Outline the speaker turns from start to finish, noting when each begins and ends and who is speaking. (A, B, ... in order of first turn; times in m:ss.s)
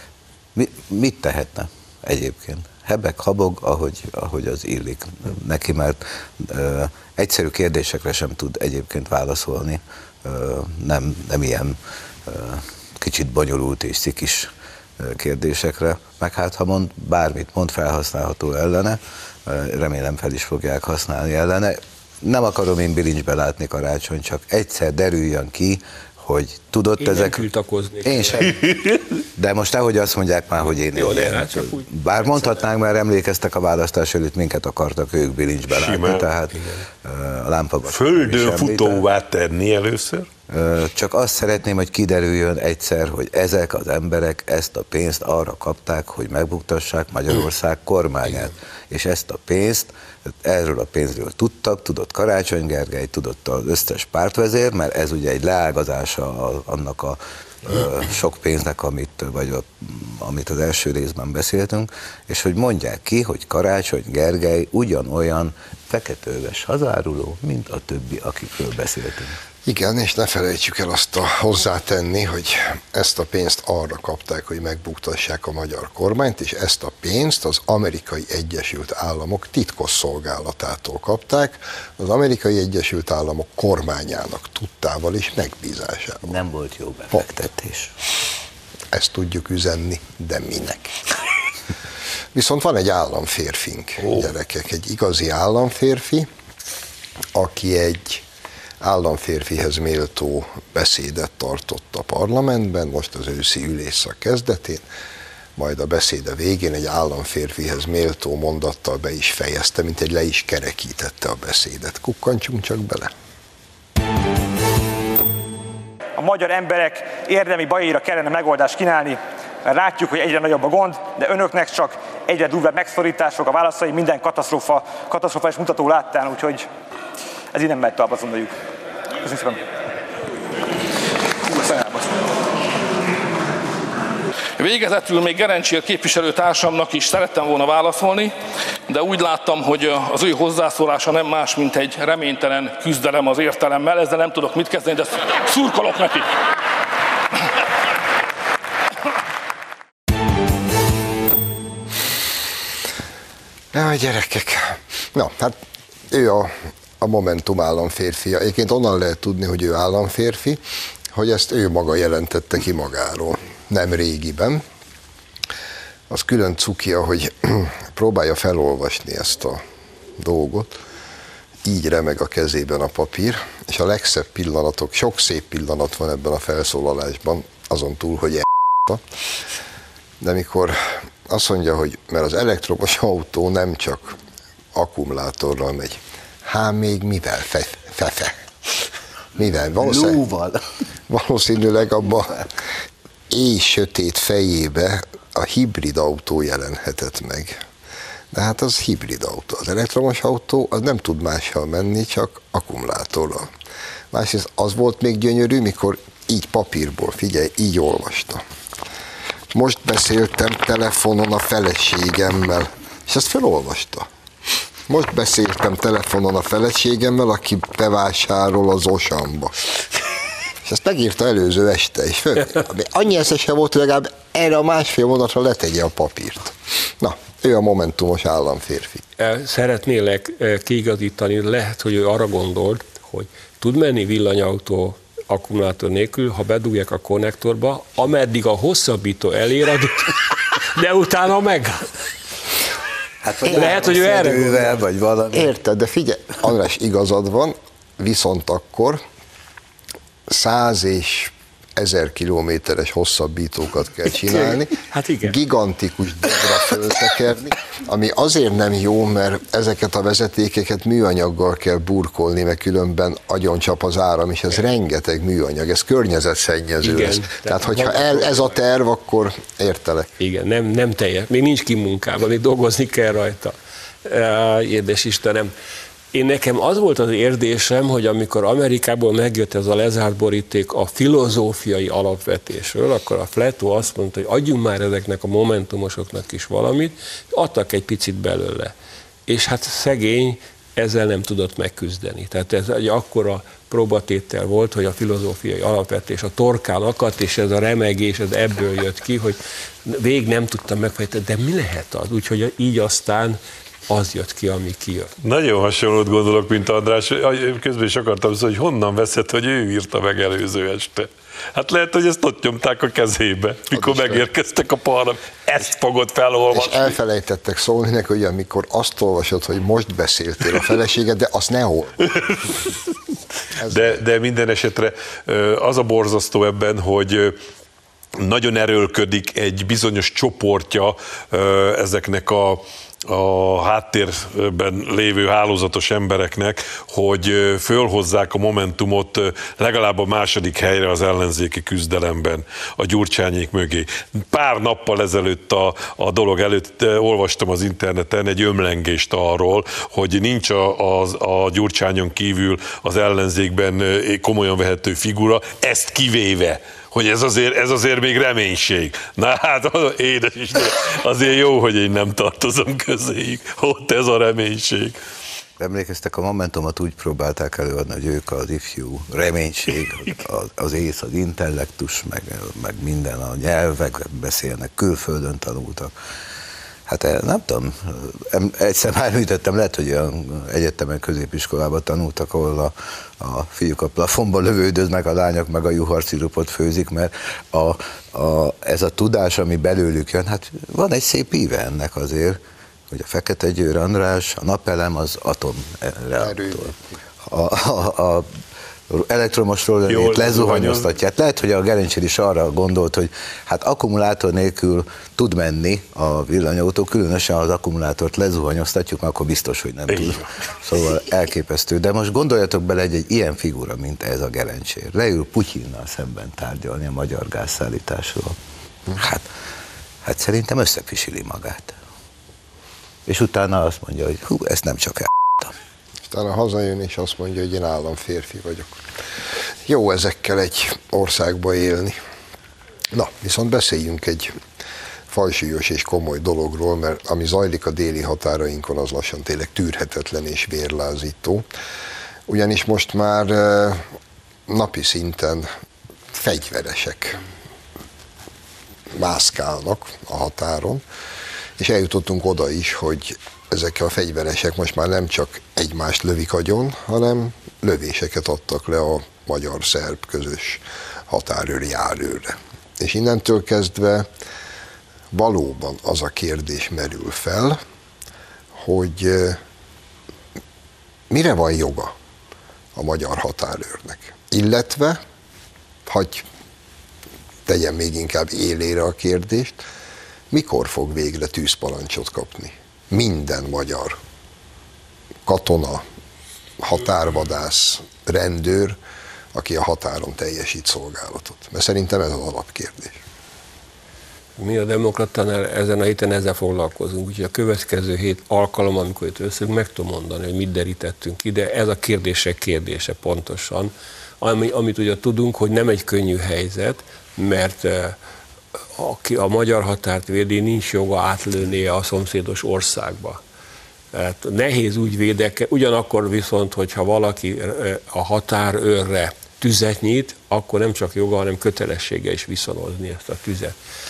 0:00.6-0:27.5 A
0:27.0-0:28.6 B
0:28.0-0:28.8 A
0:29.4-0:39.0 A
0:30.9-0:31.9 B
0:35.7-0:36.3 C
0:37.9-0:40.3 C
0:40.5-0:49.9 A
0:50.4-1:09.4 A
1:09.6-1:26.4 D
1:26.2-1:27.9 A
1:28.9-1:31.0 D
1:32.3-1:36.3 D
1:37.3-1:38.2 D
1:38.8-1:44.8 D
1:45.6-1:53.1 D
1:56.2-2:06.7 E
2:07.5-2:08.5 E
2:09.2-2:09.6 E
2:11.5-2:12.2 E
2:14.6-2:18.4 F
2:18.9-2:26.3 F
2:33.7-2:35.6 D
2:36.1-2:40.6 D
2:41.1-2:44.6 D
2:46.1-2:49.6 D
2:50.2-2:50.7 D
2:51.6-2:59.0 D
3:00.2-3:04.2 D
3:04.7-3:08.4 D
3:09.4-3:10.2 D
3:09.8-3:10.6 A
3:11.1-3:12.5 D
3:13.3-3:17.6 D
3:18.3-3:23.5 D
3:24.1-3:28.4 D
3:29.5-3:34.1 D
3:34.9-3:39.6 D
3:40.6-3:49.0 D
3:49.2-4:01.9 B
4:03.2-4:05.5 A
4:03.5-4:04.7 B
4:05.3-4:09.0 D
4:10.3-4:30.1 D
4:14.2-4:15.4 B
4:26.8-4:28.6 B
4:30.2-4:35.5 B
4:36.1-4:48.7 B
4:49.3-5:05.1 B
5:05.2-5:17.0 C
5:13.7-5:14.3 D
5:16.5-5:22.1 D
5:22.1-5:22.7 C
5:23.6-5:24.0 D
5:23.7-5:27.4 C
5:28.2-6:05.0 C
6:05.6-6:15.9 A
6:16.9-6:32.4 A
6:32.9-6:38.3 A
6:36.2-6:36.8 D
6:38.9-6:58.4 A
6:39.9-6:40.9 C
6:49.9-6:50.2 C
6:59.0-6:59.3 A
7:00.0-7:01.8 A
7:03.1-7:05.5 A
7:06.0-7:08.8 D
7:09.7-7:12.0 D
7:12.9-7:14.4 D
7:15.1-7:21.5 D
7:22.3-7:23.8 D
7:24.5-7:25.5 D
7:26.1-7:27.2 D
7:28.9-7:30.8 D
7:31.6-7:44.1 D
7:45.1-7:47.6 D
7:48.5-7:49.4 D
7:51.1-7:51.9 D
7:52.8-7:55.0 D
7:55.9-7:56.3 D
7:57.5-7:59.6 D
8:00.3-8:04.0 D
8:05.3-8:05.8 D
8:06.6-8:08.8 D
8:09.3-8:13.0 D
8:14.4-8:28.0 B
8:28.8-8:33.2 B
8:33.9-8:43.6 B